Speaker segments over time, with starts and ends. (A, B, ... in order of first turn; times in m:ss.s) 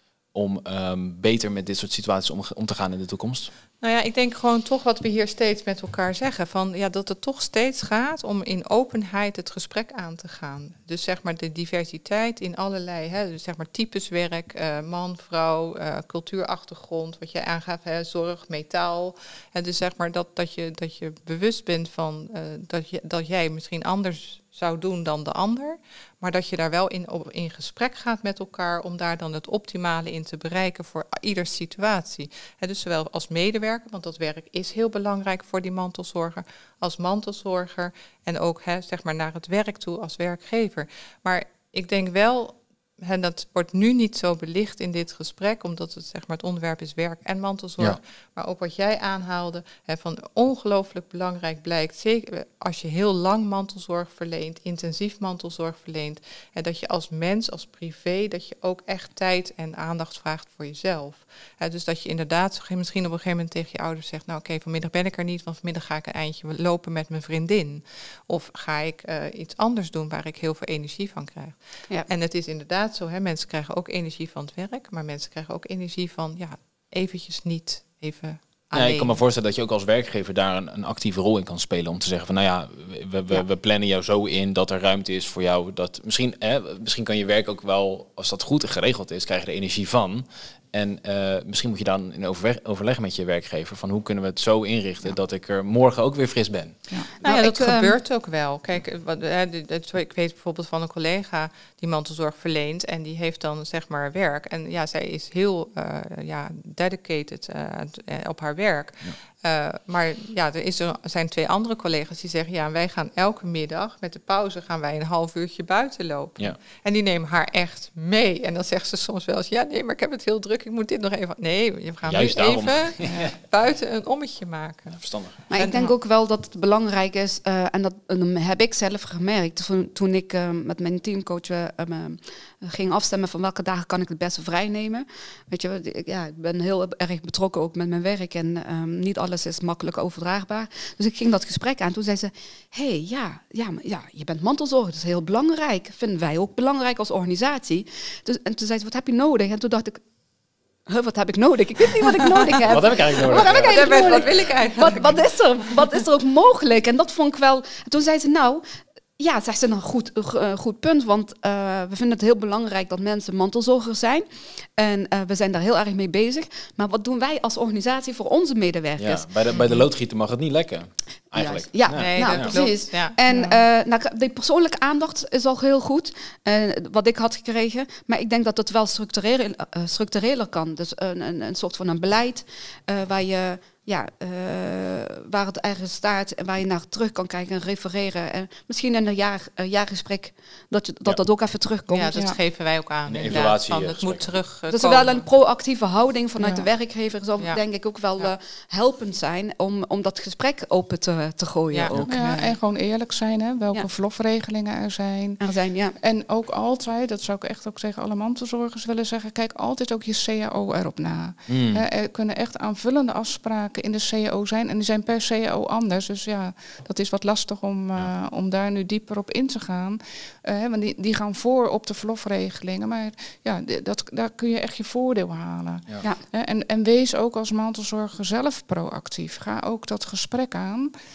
0:00.3-0:03.5 A
0:03.8-1:19.2 B
1:18.7-1:36.8 A
1:37.2-1:37.9 C
1:37.2-2:05.9 B
2:02.0-2:03.4 A
2:05.0-2:05.4 A
2:05.5-2:30.0 C
2:30.9-2:38.6 C
2:32.6-2:34.5 A
2:33.3-2:35.4 B
2:39.2-2:49.3 C
2:49.0-2:52.6 A
2:51.3-3:12.1 C
2:51.9-2:53.1 B
2:53.3-2:53.6 D
3:11.9-3:15.3 B
3:13.1-3:14.4 A
3:14.7-3:22.4 C
3:16.4-3:16.7 D
3:21.7-3:22.2 B
3:22.0-3:25.4 D
3:25.4-3:26.0 C
3:26.0-3:50.9 D
3:31.5-3:31.8 A